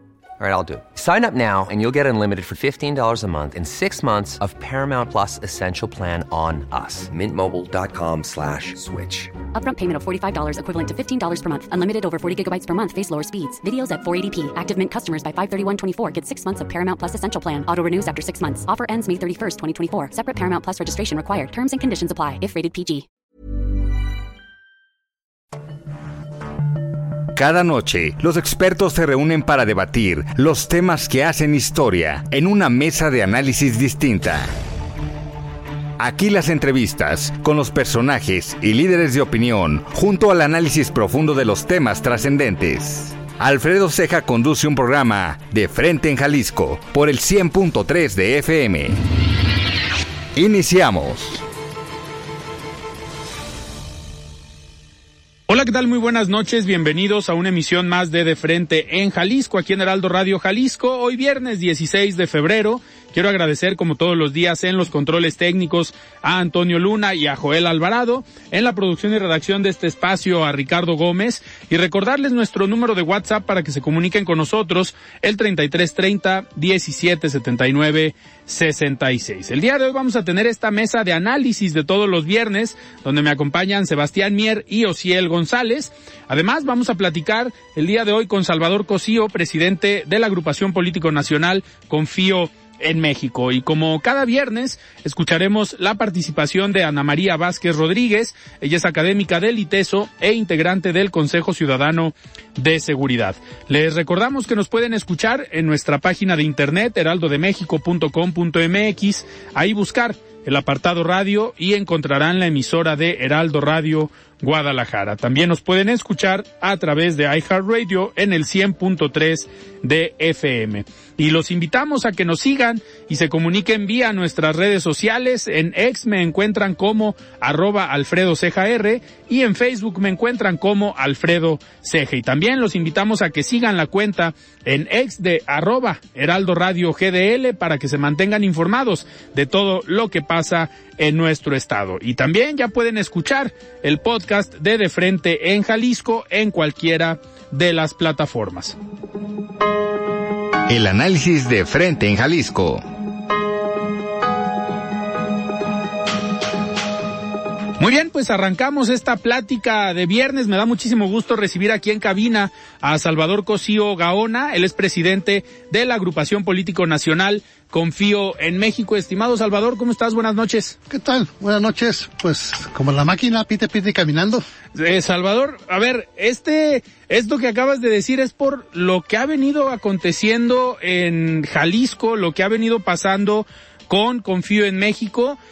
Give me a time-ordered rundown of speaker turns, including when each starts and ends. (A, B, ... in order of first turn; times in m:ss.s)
0:00.4-0:09.3 A
0:09.5-0:23.1 B
0:27.4-0:34.5 C
0:36.0-0:49.0 C
0:50.4-0:51.4 C
0:55.5-2:28.8 D
2:30.7-2:32.8 C
2:37.8-2:50.8 D
2:50.9-2:54.5 E
2:54.8-3:05.4 D